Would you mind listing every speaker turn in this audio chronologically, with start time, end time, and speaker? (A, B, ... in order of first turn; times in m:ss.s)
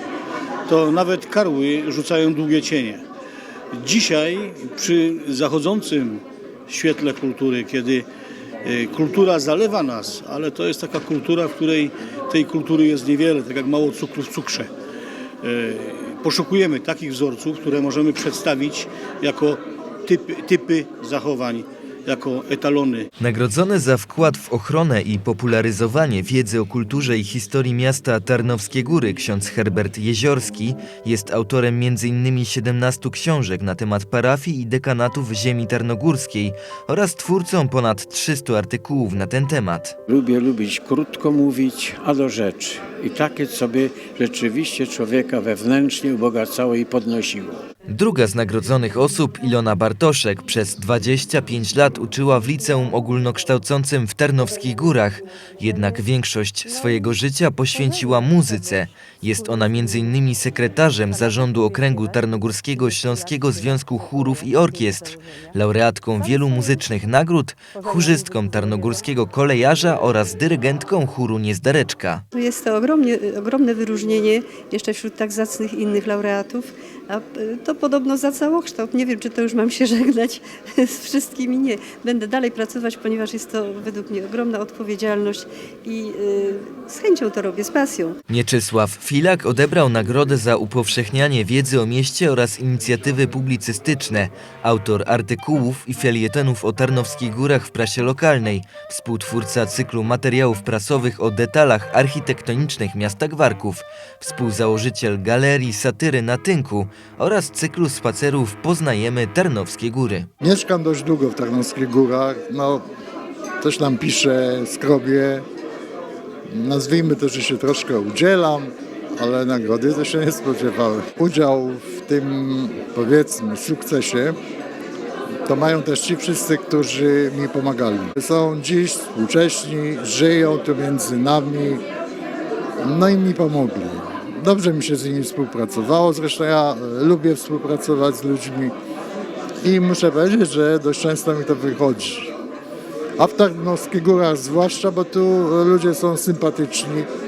0:00.7-0:03.0 A
0:03.7-0:08.1 A
0:08.6-0:14.7 A
0:15.4-0:23.1 A
0:23.2-0:40.0 B
0:40.1-0:47.6 C
0:47.9-1:12.2 B
1:12.3-1:28.2 D
1:28.3-1:50.3 B
1:50.4-1:52.8 E
1:53.6-1:55.4 E
1:56.5-2:04.4 E
2:05.5-2:11.8 E
2:12.8-2:18.7 E
2:19.6-2:22.3 E
2:23.2-2:27.1 E